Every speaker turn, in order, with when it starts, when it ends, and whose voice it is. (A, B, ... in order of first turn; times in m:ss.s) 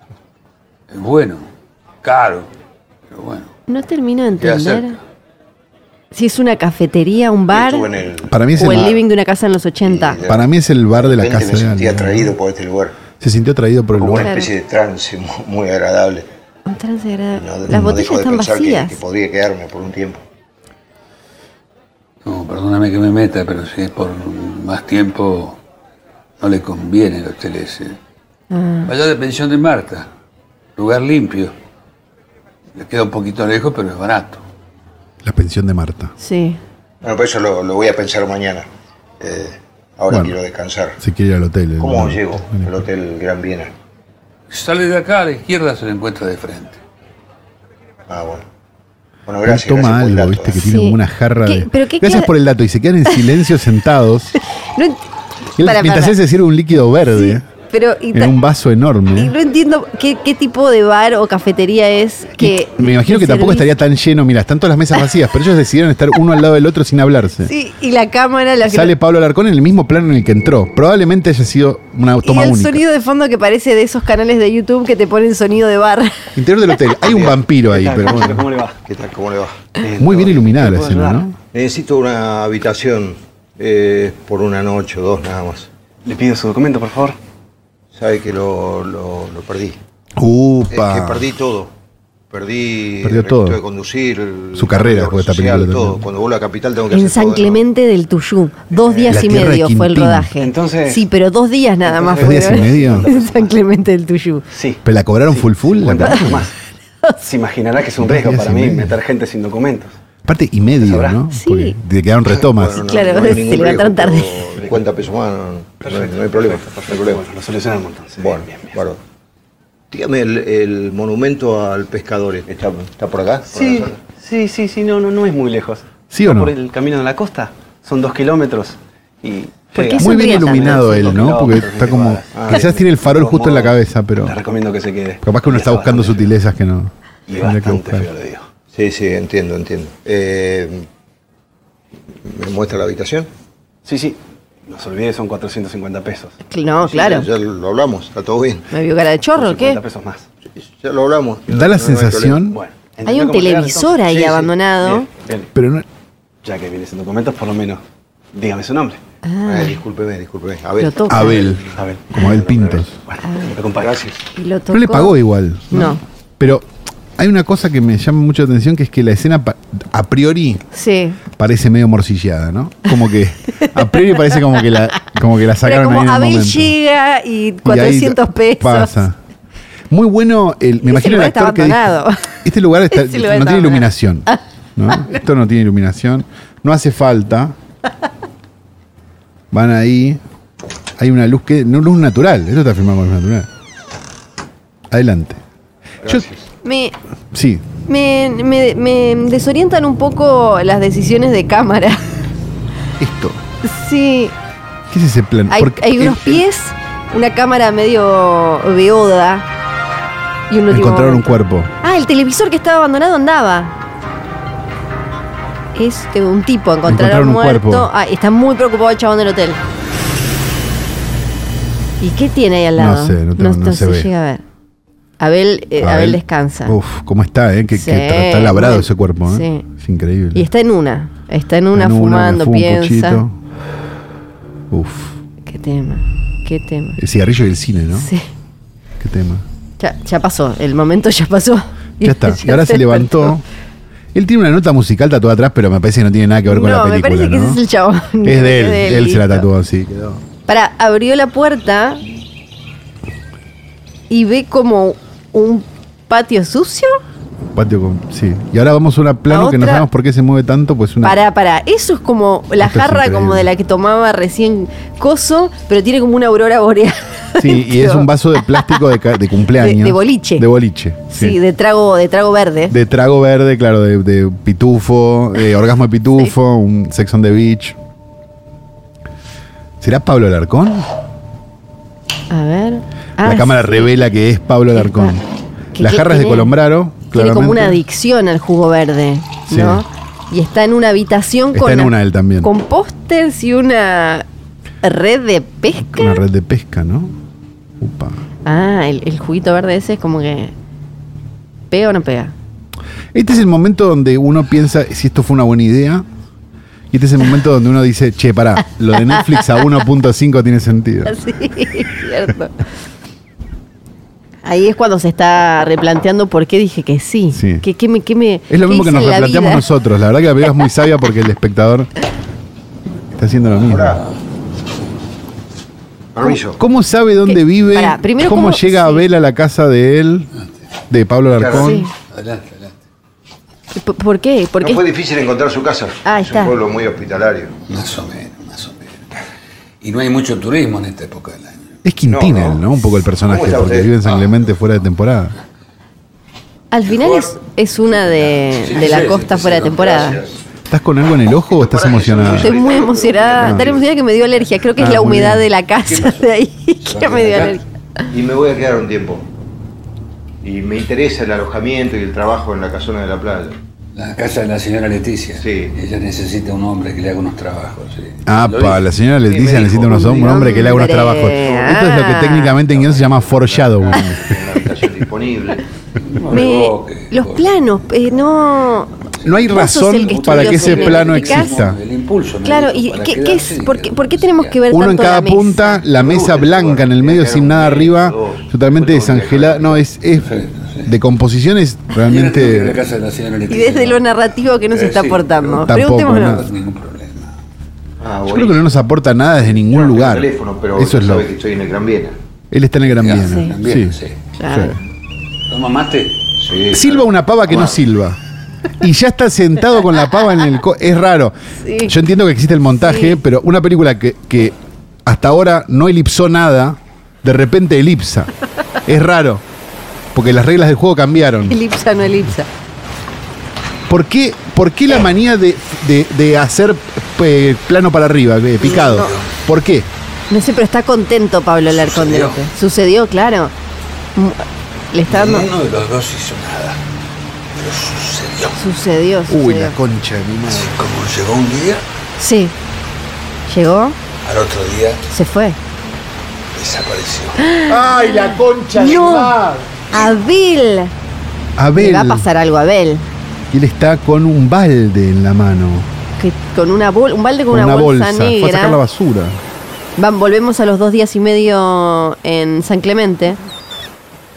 0:00.9-0:01.5 A
0:02.0-0:02.5 A
0:03.1-0:03.5 A
0:03.7-0:05.0 B
0:04.4-0:04.9 C
0:06.1-0:07.9 B
0:07.5-0:09.0 C
0:08.3-0:08.9 D
0:08.6-0:10.2 B
0:09.8-0:13.0 C
0:10.2-0:12.3 D
0:13.2-0:14.4 D
0:13.9-0:16.2 C
0:14.2-0:14.5 B
0:16.6-0:19.0 B
0:17.3-0:20.2 C
0:22.2-0:25.6 A
0:26.4-0:28.0 A
0:28.5-0:28.9 B
0:28.9-0:30.1 A
0:30.8-0:31.5 A
0:32.8-0:34.4 A
0:35.2-0:36.1 D
0:36.2-0:36.6 B
0:37.0-0:38.6 C
0:39.2-0:41.0 C
0:40.1-0:40.3 D
0:41.0-0:42.8 D
0:41.8-0:43.7 C
0:44.5-0:46.8 A
0:48.1-0:48.4 C
0:49.2-0:50.6 C
0:49.4-0:54.3 D
0:50.6-0:52.3 B
0:54.6-0:55.0 B
0:55.6-0:56.1 B
0:55.6-0:57.5 D
0:57.1-0:58.3 B
0:58.1-0:59.3 D
0:59.1-1:03.7 B
1:02.4-1:07.5 D
1:07.4-1:08.9 B
1:08.7-1:12.8 D
1:12.2-1:16.3 B
1:16.3-1:18.4 D
1:17.0-1:17.4 C
1:17.7-1:18.8 E
1:18.8-1:19.7 C
1:19.8-1:21.2 E
1:20.0-1:21.4 D
1:21.5-1:25.7 C
1:26.0-1:27.2 E
1:27.9-1:29.8 C
1:30.2-1:31.2 D
1:30.7-1:31.7 C
1:32.3-1:37.6 C
1:33.0-1:33.6 D
1:34.5-1:36.0 D
1:36.9-1:44.4 B
1:38.7-1:39.5 E
1:39.1-1:40.3 D
1:40.4-1:41.0 E
1:41.8-1:43.5 E
1:42.1-1:43.1 D
1:44.5-1:46.5 E
1:44.8-1:46.5 D
1:47.2-1:49.9 E
1:48.0-1:49.0 D
1:50.2-1:52.9 D
1:50.8-1:51.2 E
1:51.3-1:51.8 B
1:52.2-1:57.2 C
1:52.8-1:54.4 B
1:55.8-1:58.8 E
1:58.2-1:59.0 C
1:59.9-2:04.0 C
2:03.5-2:16.3 E
2:06.1-2:06.5 D
2:09.8-2:14.4 D
2:09.9-2:11.2 B
2:12.3-2:12.7 C
2:15.2-2:18.1 D
2:17.3-2:18.4 E
2:18.7-2:20.8 C
2:22.2-2:23.3 C
2:23.8-2:26.4 E
2:26.5-2:27.3 B
2:26.8-2:28.7 C
2:28.7-2:29.8 B
2:29.2-2:30.2 E
2:30.6-2:32.4 C
2:31.5-2:32.6 D
2:32.5-2:35.5 E
2:33.0-2:35.1 B
2:35.5-2:35.8 D
2:36.4-2:37.8 E
2:38.3-2:39.0 E
2:39.2-2:39.8 B
2:39.4-2:41.6 C
2:40.8-2:41.5 B
2:41.1-2:43.0 D
2:41.7-2:44.2 E
2:43.2-2:43.5 B
2:43.6-2:44.1 C
2:44.4-2:45.2 B
2:44.7-2:46.6 D
2:45.7-2:46.0 B
2:47.2-2:50.6 D
2:50.7-2:51.2 B
2:51.3-2:56.7 D
2:53.6-2:54.7 B
2:55.6-2:59.0 B
2:57.6-2:59.2 D
2:59.9-3:01.9 D
3:00.8-3:02.4 B
3:02.4-3:07.5 D
3:02.9-3:04.4 B
3:09.5-3:10.2 D
3:11.0-3:13.5 D
3:14.9-3:15.4 D
3:16.0-3:16.4 C
3:16.6-3:16.9 B
3:17.3-3:17.6 D
3:17.8-3:22.1 B
3:23.0-3:23.4 D
3:23.6-3:24.3 B
3:24.9-3:26.4 D
3:25.5-3:29.5 B
3:30.5-3:33.8 B
3:30.7-3:31.7 D
3:35.7-3:39.6 B
3:36.8-3:37.9 D
3:42.0-3:44.4 B
3:42.8-3:44.1 D
3:45.2-3:46.8 B
3:45.8-3:50.4 D
3:47.7-3:49.6 B
3:50.3-3:53.2 B
3:51.7-3:53.4 D
3:54.7-3:55.2 D
3:55.4-3:57.0 B
3:57.0-3:58.1 D
3:57.9-3:58.2 B
3:59.0-3:59.4 D
3:59.8-4:03.4 B
4:02.0-4:03.4 D
4:04.1-4:07.6 D
4:06.4-4:09.5 B
4:08.2-4:10.2 D
4:10.5-4:12.0 B
4:14.1-4:17.0 B
4:17.5-4:21.2 D
4:19.3-4:19.9 B
4:21.0-4:28.8 B
4:22.6-4:23.5 D
4:27.4-4:31.4 D
4:29.6-4:30.4 B
4:31.1-4:32.7 B
4:32.7-4:37.8 D
4:39.8-4:40.9 D
4:42.3-4:43.9 B
4:43.2-4:45.2 D
4:44.7-4:45.2 B
4:45.7-4:46.5 B
4:45.8-4:47.8 D
4:47.1-4:54.2 B
4:49.5-4:49.8 D
4:51.5-4:52.5 D
4:54.8-4:56.2 B
4:55.8-4:57.2 D
4:57.8-4:58.2 D
4:58.4-5:00.5 B
5:01.7-5:02.3 B
5:03.1-5:06.0 D
5:06.9-5:11.2 D
5:09.1-5:09.6 B
5:11.0-5:12.5 B
5:14.4-5:19.6 B
5:17.3-5:17.6 D
5:18.5-5:21.9 D
5:23.1-5:24.0 D
5:23.6-5:24.0 C
5:26.1-5:26.6 C
5:26.5-5:30.3 D
5:27.2-5:29.1 B
5:30.9-5:31.9 D
5:31.3-5:31.8 C
5:31.6-5:31.9 B
5:32.1-5:32.8 A
5:33.7-5:34.8 B
5:34.6-5:37.5 C
5:36.0-5:36.6 B
5:37.7-5:39.0 A
5:39.8-5:41.8 A
5:41.8-5:45.3 D
5:42.1-5:42.6 C
5:43.2-5:44.3 C
5:46.7-5:50.2 B
5:46.9-5:47.3 A
5:48.6-5:50.2 A
5:48.9-5:50.4 C
5:50.7-5:52.6 D
5:51.5-5:53.9 C
5:52.3-5:57.6 B
5:53.4-5:53.7 D
5:54.8-5:55.4 D
5:56.8-5:57.6 A
5:58.1-5:59.2 C
6:00.4-6:03.6 C
6:03.9-6:08.9 A
6:05.4-6:05.7 C
6:08.2-6:14.3 D
6:09.2-6:11.9 C
6:09.9-6:12.6 B
6:12.6-6:15.6 C
6:16.0-6:17.5 A
6:16.3-6:18.9 B
6:19.2-6:21.8 D
6:19.2-6:24.6 A
6:19.5-6:21.5 B
6:22.4-6:25.8 B
6:24.7-6:30.3 D
6:25.9-6:29.8 C
6:30.2-6:30.9 A
6:30.8-6:32.8 D
6:32.0-6:34.1 A
6:33.5-6:36.4 B
6:34.7-6:37.3 A
6:35.6-6:36.4 D
6:38.0-6:38.6 C
6:38.2-6:41.3 D
6:39.4-6:42.2 C
6:42.5-6:44.8 D
6:42.9-6:44.2 A
6:43.2-6:43.5 B
6:44.4-6:44.8 B
6:45.5-6:46.2 A
6:46.4-6:47.8 C
6:46.7-6:48.2 D
6:48.8-6:58.3 D
6:51.6-6:51.9 B
6:52.8-6:53.2 B
6:58.8-6:59.4 D
7:00.1-7:01.6 D
7:01.5-7:02.5 B
7:03.9-7:09.9 D
7:08.6-7:09.1 B
7:08.9-7:09.2 A
7:10.3-7:13.5 B
7:11.7-7:12.4 A
7:14.2-7:15.5 B
7:15.1-7:16.8 A
7:17.5-7:18.6 A
7:18.6-7:19.8 B
7:19.3-7:20.8 D
7:20.5-7:21.8 A
7:22.2-7:22.5 B
7:23.5-7:24.0 B
7:24.2-7:25.0 A
7:25.1-7:25.6 B
7:26.5-7:29.6 A
7:27.4-7:28.3 B
7:27.7-7:29.5 D
7:28.8-7:29.3 B
7:29.9-7:30.9 B
7:31.6-7:32.3 D
7:31.7-7:33.1 B
7:33.5-7:35.9 D
7:36.2-7:38.8 B
7:37.5-7:39.4 D
7:40.0-7:43.4 B